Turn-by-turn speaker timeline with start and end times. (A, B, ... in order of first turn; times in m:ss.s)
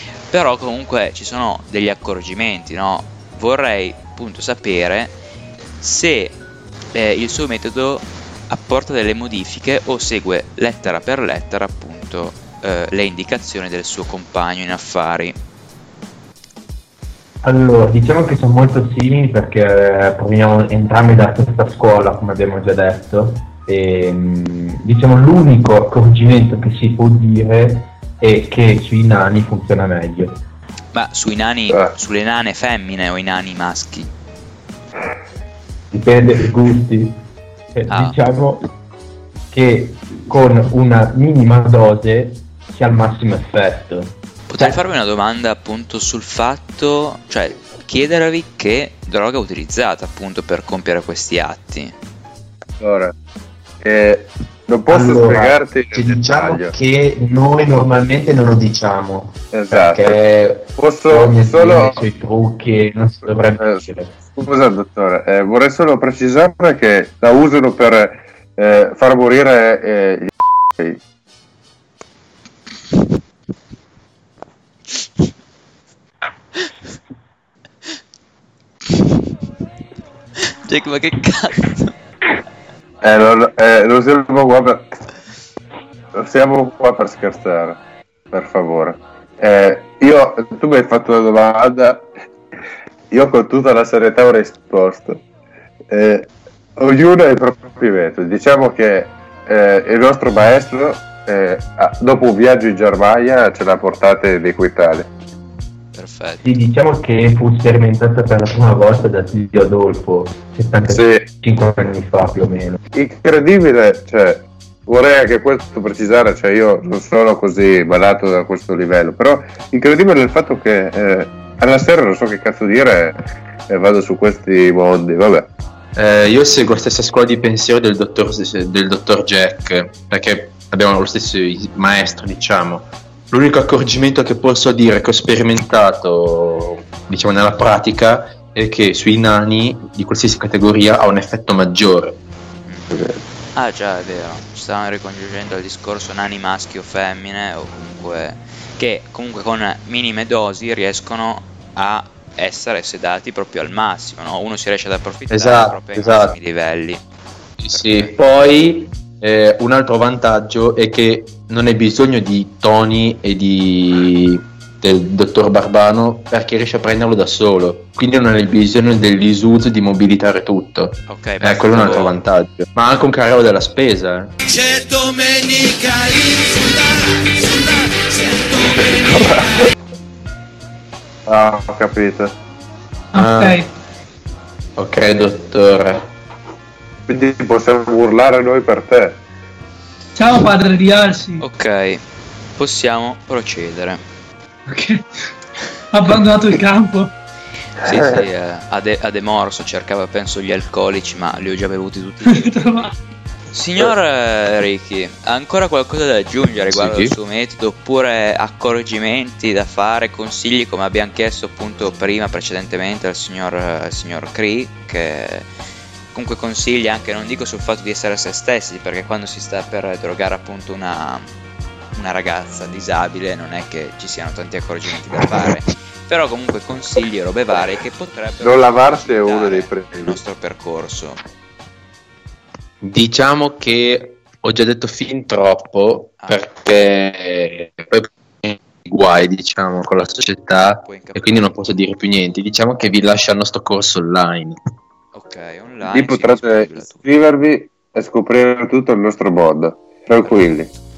0:00.3-0:05.2 A
0:05.8-0:06.4 A
0:06.9-0:15.4 A
0:17.4-0:30.4 B
0:30.9-0:34.1 A
0:35.9-0:38.7 B
0:37.9-0:38.2 A
0:39.5-0:44.8 B
0:44.5-0:52.0 A
0:52.8-0:53.1 C
0:53.8-0:56.8 C
0:54.9-1:04.2 B
0:59.5-1:00.2 C
1:00.8-1:02.0 C
1:03.6-1:11.0 C
1:20.6-1:22.0 A
1:23.0-1:24.9 C
1:26.1-1:27.8 C
1:28.3-1:32.1 C
1:33.1-1:35.2 C
1:35.9-1:45.1 C
1:46.0-1:46.6 A
1:46.4-1:52.8 B
1:50.9-1:51.3 C
1:52.9-2:05.5 C
2:06.0-2:22.2 B
2:22.7-2:23.0 A
2:23.6-2:37.0 A
2:35.3-2:36.4 B
2:37.6-2:54.4 B
2:37.7-2:38.5 A
2:51.1-2:52.2 A
2:54.4-2:59.7 D
3:01.3-3:02.3 C
3:03.1-3:03.7 E
3:03.2-3:03.6 B
3:04.8-3:06.1 B
3:07.1-3:09.2 C
3:10.2-3:11.4 E
3:11.4-3:12.0 A
3:12.6-3:14.0 A
3:14.7-3:15.1 E
3:15.9-3:17.1 E
3:17.8-3:22.9 A
3:17.9-3:18.2 C
3:22.2-3:22.9 E
3:23.5-3:35.5 A
3:26.7-3:27.2 B
3:36.1-3:41.3 A
3:41.9-3:51.2 A
3:48.4-3:50.2 C
3:52.8-4:04.6 B
3:56.2-3:56.5 A
4:00.8-4:01.6 A
4:05.1-4:07.0 A
4:05.9-4:10.7 C